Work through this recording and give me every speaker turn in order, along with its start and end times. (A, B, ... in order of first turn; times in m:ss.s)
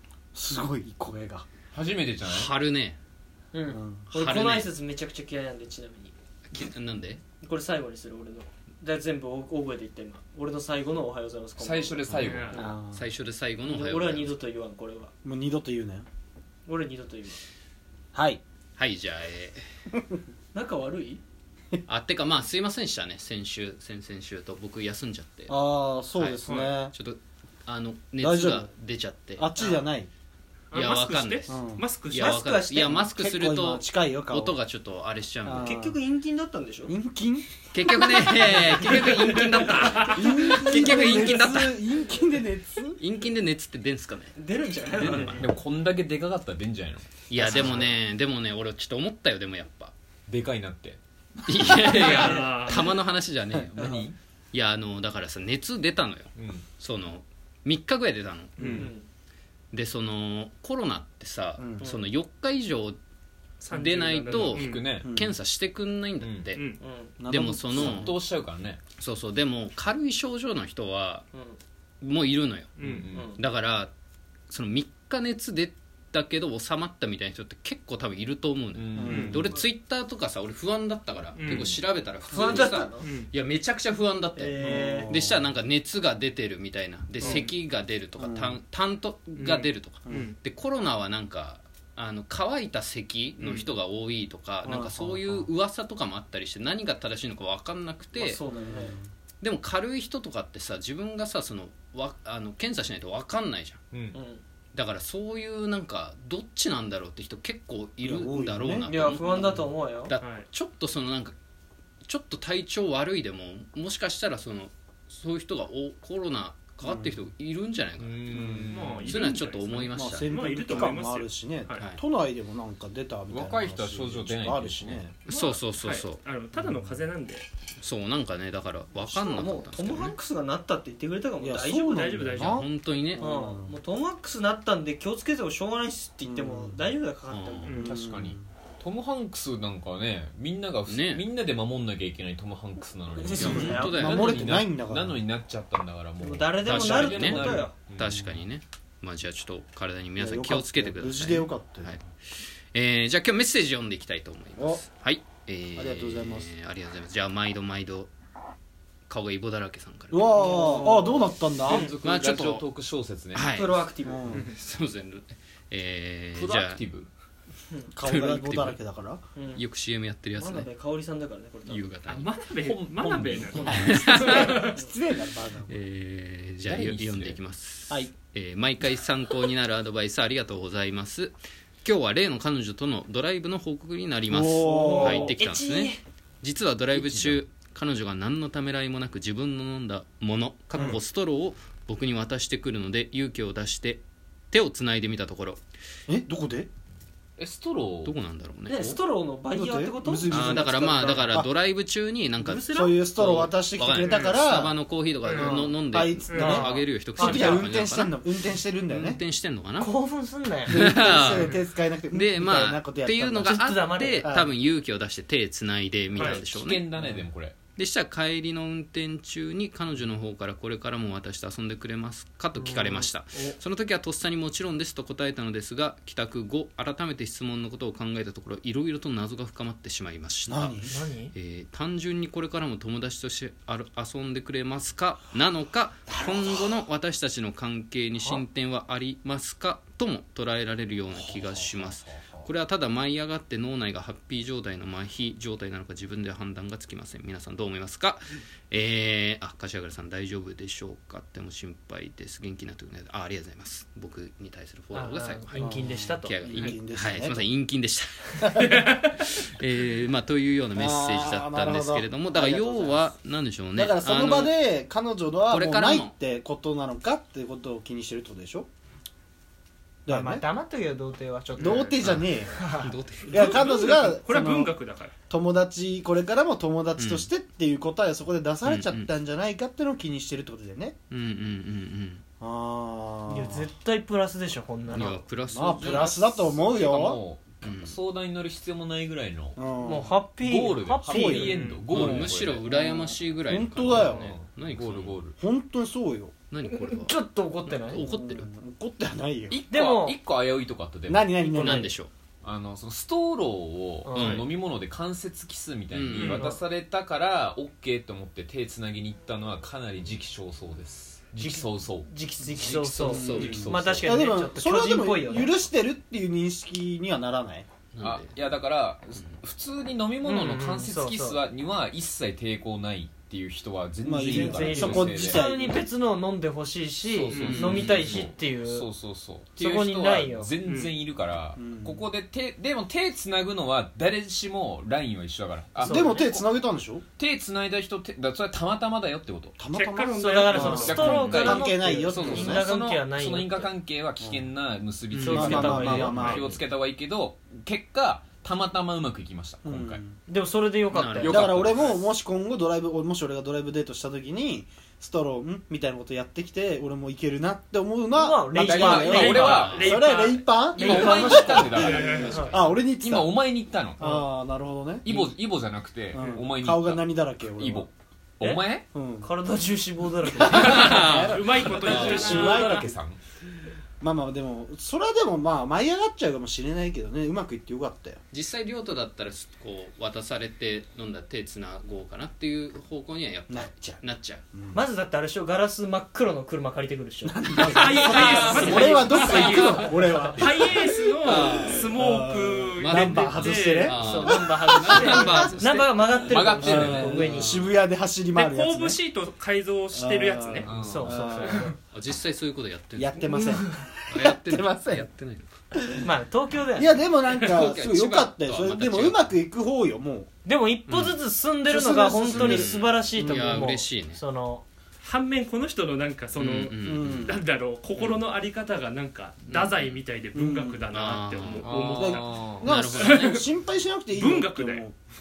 0:00.3-0:01.4 A
0:01.7-0:02.5 B
0:02.2-0:03.0 C
0:03.5-0:06.1 D
0:03.7-0:04.1 A
0:04.1-0:04.7 C
0:06.5-0:07.2 C
0:07.4-0:12.8 D
0:11.6-0:12.7 B
0:12.2-0:12.6 E
0:12.5-0:13.1 A
0:12.9-0:14.4 C
0:13.7-0:15.1 D
0:15.2-0:16.1 A
0:16.6-0:17.4 D
0:18.1-0:18.4 A
0:18.8-0:19.6 C
0:20.5-0:21.2 D
0:21.9-0:25.5 C
0:25.5-0:26.9 A
0:26.1-0:29.5 C
0:26.4-0:26.8 E
0:28.2-0:28.7 A
0:29.4-0:30.1 A
0:29.6-0:29.8 E
0:30.7-0:31.6 C
0:30.7-0:32.4 E
0:31.5-0:31.9 A
0:32.1-0:35.7 C
0:32.1-0:33.1 D
0:33.0-0:34.6 A
0:35.4-0:36.0 A
0:35.6-0:37.0 D
0:36.9-0:37.4 A
0:37.7-0:41.8 C
0:38.1-0:39.0 A
0:38.5-0:40.1 D
0:38.9-0:40.7 E
0:40.0-0:43.0 A
0:40.8-0:41.3 D
0:43.0-0:44.3 C
0:44.3-0:45.5 D
0:44.9-0:45.5 C
0:45.2-0:47.8 B
0:47.3-0:49.9 C
0:47.4-0:47.9 A
0:50.3-0:51.0 B
0:51.4-0:54.0 C
0:51.9-0:52.7 D
0:52.0-0:52.9 E
0:53.5-0:54.0 A
0:53.7-0:54.2 B
0:54.5-0:58.8 C
0:56.3-0:56.7 B
0:58.6-0:58.9 B
0:58.6-0:59.1 D
0:59.7-1:03.0 C
1:01.6-1:01.9 A
1:01.8-1:02.1 D
1:03.6-1:04.9 E
1:03.7-1:06.6 C
1:04.3-1:05.1 B
1:05.0-1:05.4 A
1:06.2-1:06.5 B
1:06.5-1:06.8 E
1:06.8-1:07.1 D
1:07.2-1:08.1 A
1:07.3-1:08.2 C
1:07.7-1:08.8 B
1:09.0-1:11.2 C
1:11.3-1:11.6 D
1:12.0-1:12.8 C
1:12.8-1:13.1 E
1:12.8-1:13.3 B
1:13.1-1:13.4 D
1:13.4-1:13.9 C
1:14.5-1:38.4 C
1:18.8-1:19.5 B
1:19.0-1:19.5 A
1:19.0-1:19.4 E
1:21.3-1:21.8 E
1:22.2-1:23.1 D
1:23.0-1:23.3 E
1:24.4-1:25.1 D
1:24.6-1:25.5 A
1:27.2-1:27.6 E
1:28.2-1:28.6 A
1:29.3-1:30.4 E
1:30.1-1:30.3 A
1:33.4-1:33.7 E
1:34.6-1:35.5 A
1:38.2-1:39.0 D
1:38.5-1:39.1 A
1:39.4-1:43.8 C
1:44.1-1:44.4 D
1:44.7-1:49.5 C
1:48.0-1:49.7 A
1:48.9-1:50.2 D
1:50.1-1:51.3 C
1:50.2-1:50.5 E
1:52.0-2:00.3 C
1:56.8-1:57.2 A
1:58.0-1:59.2 B
1:58.3-1:58.7 A
1:58.7-2:01.9 E
1:59.9-2:05.1 A
2:01.8-2:02.0 C
2:03.3-2:05.2 B
2:05.3-2:06.2 C
2:05.3-2:07.5 E
2:06.6-2:07.0 A
2:07.8-2:10.2 C
2:09.0-2:12.1 D
2:11.4-2:13.8 A
2:11.8-2:12.6 E
2:12.4-2:13.3 C
2:13.2-2:17.8 D
2:16.2-2:16.9 A
2:17.3-2:17.8 C
2:17.7-2:18.5 A
2:17.8-2:28.2 B
2:20.9-2:21.2 C
2:23.2-2:24.1 D
2:23.4-2:24.2 C
2:23.4-2:25.2 A
2:26.2-2:27.8 D
2:26.6-2:32.0 C
2:30.2-2:32.0 A
2:32.7-2:38.1 C
2:34.6-2:34.8 A
2:35.8-2:36.5 A
2:39.1-2:40.4 C
2:40.1-2:41.9 A
2:40.3-2:41.9 D
2:41.6-2:43.6 B
2:42.0-2:42.6 C
2:43.3-2:46.8 C
2:43.5-2:44.4 D
2:44.0-2:44.5 A
2:46.3-2:47.1 B
2:47.9-2:49.2 A
2:48.0-2:48.8 C
2:49.3-2:49.6 D
2:49.6-2:50.7 C
2:50.3-2:51.9 D
2:51.7-2:52.3 C
2:52.1-2:54.8 E
2:52.6-2:54.1 B
2:53.6-2:54.7 C
2:53.6-2:55.8 A
2:55.7-3:05.9 C
2:56.6-2:57.4 B
3:04.3-3:05.4 A
3:04.6-3:06.0 D
3:06.4-3:15.6 C
3:06.9-3:07.4 B
3:16.1-3:16.7 A
3:17.4-3:18.2 B
3:18.0-3:18.9 C
3:18.7-3:21.2 D
3:19.5-3:21.5 A
3:20.3-3:28.2 C
3:22.4-3:24.8 A
3:24.0-3:24.4 E
3:25.2-3:25.5 E
3:25.3-3:29.2 A
3:26.3-3:26.6 E
3:26.3-3:27.7 D
3:28.9-3:29.9 C
3:29.8-3:30.8 D
3:30.7-3:33.6 A
3:30.7-3:31.6 C
3:31.3-3:31.6 E
3:32.1-3:36.9 C
3:33.4-3:34.3 D
3:34.2-3:34.5 A
3:36.2-3:37.6 B
3:36.2-3:36.4 E
3:37.0-3:37.3 A
3:37.8-3:50.8 C
3:42.6-3:43.4 D
3:50.5-3:50.9 A
3:50.8-3:51.3 D
3:51.3-4:18.6 C
3:56.1-3:56.8 A
3:58.2-3:58.4 D
4:01.1-4:02.5 A
4:14.9-4:16.6 D
4:15.6-4:17.4 A
4:18.4-4:18.9 A
4:18.6-4:19.2 E
4:19.1-4:24.6 C
4:20.8-4:23.1 A
4:23.8-4:28.7 A
4:25.5-4:26.1 C
4:30.1-4:30.4 A
4:30.1-4:33.0 D
4:31.6-4:31.9 E
4:31.6-4:32.6 A
4:31.9-4:33.7 C
4:33.3-4:35.1 E
4:33.3-4:34.7 A
4:35.3-4:41.0 A
4:37.0-4:37.3 C
4:38.6-4:39.1 C
4:41.1-4:42.2 C
4:42.4-4:43.7 A
4:43.3-4:45.2 D
4:44.9-4:46.2 C
4:44.9-4:47.2 A
4:45.7-4:49.6 B
4:47.6-4:48.0 C
4:49.6-4:50.1 A
4:49.8-4:51.6 D
4:50.3-4:52.7 B
4:51.0-4:54.4 A
4:51.4-4:51.9 E
4:51.9-4:55.2 C
4:53.8-4:55.4 B
4:55.4-4:56.3 A
4:56.5-4:58.5 C
4:56.6-4:58.1 D
4:57.9-4:59.6 A
4:59.5-5:01.5 B
4:59.7-5:00.2 D
5:01.1-5:01.9 A
5:01.4-5:01.9 D
5:01.6-5:02.1 C
5:02.4-5:12.1 B
5:04.0-5:04.4 D
5:04.1-5:04.5 C
5:05.9-5:06.6 C
5:06.2-5:06.4 E
5:06.3-5:06.6 D
5:11.4-5:15.6 D
5:12.6-5:14.2 B
5:13.0-5:13.7 C
5:13.1-5:17.7 A
5:17.9-5:18.4 C
5:18.0-5:25.4 B
5:20.2-5:21.4 D
5:24.0-5:25.9 A
5:24.3-5:28.9 D
5:27.1-5:36.4 B
5:27.3-5:27.9 E
5:27.4-5:27.8 C
5:29.6-5:30.5 D
5:30.6-5:30.9 E
5:31.6-5:32.1 A
5:35.8-5:36.3 D
5:35.8-5:37.0 A
5:37.2-5:39.6 B
5:39.6-5:42.7 A
5:39.7-5:41.0 E
5:40.2-5:43.7 D
5:40.7-5:50.0 B
5:41.0-5:41.6 C
5:44.2-5:44.4 A
5:45.1-5:45.4 C
5:45.2-5:46.5 D
5:45.3-5:46.6 A
5:46.1-5:46.4 E
5:49.6-5:50.2 A
5:50.3-5:51.5 D
5:50.9-5:51.4 C
5:51.2-5:52.0 B
5:51.2-6:03.4 A
5:58.1-5:59.7 D
5:58.6-6:00.0 B
5:59.1-6:00.6 E
5:59.4-6:00.0 C
6:00.7-6:04.2 B
6:00.8-6:02.6 D
6:01.6-6:02.8 C
6:01.8-6:02.3 E
6:04.0-6:05.3 A
6:05.0-6:08.8 B
6:06.1-6:07.9 A
6:08.9-6:09.3 A
6:09.2-6:11.1 D
6:10.3-6:12.9 A
6:10.5-6:12.2 C
6:10.6-6:12.9 E
6:11.8-6:13.2 B
6:14.0-6:18.2 A
6:18.3-6:24.4 C
6:23.5-6:24.0 A
6:24.5-6:24.8 A
6:24.7-6:30.1 D
6:27.2-6:35.6 A
6:27.6-6:33.9 E
6:28.2-6:30.6 C
6:31.2-6:31.7 C
6:32.8-6:36.0 C
6:33.9-6:37.6 D
6:36.3-6:37.3 B
6:36.6-6:39.0 A
6:37.2-6:37.7 C
6:38.3-6:41.7 E
6:39.9-6:41.7 A
6:40.6-6:41.2 B
6:40.8-6:41.8 D
6:41.9-6:43.3 C
6:43.0-6:45.1 A
6:44.1-6:45.6 C
6:45.7-6:46.1 A
6:46.0-6:47.0 D
6:46.8-6:50.3 A
6:47.3-6:47.6 E
6:47.5-6:49.3 C
6:50.4-6:54.6 D
6:50.9-6:51.2 C
6:51.7-6:53.7 A
6:52.3-6:54.2 C
6:55.0-7:03.4 E
6:56.3-6:57.4 C
6:56.8-6:57.4 A
6:59.4-7:00.0 C
7:00.3-7:00.8 A
7:00.9-7:01.8 C
7:01.6-7:02.7 B
7:01.9-7:04.9 A
7:02.6-7:03.4 C
7:04.1-7:04.9 E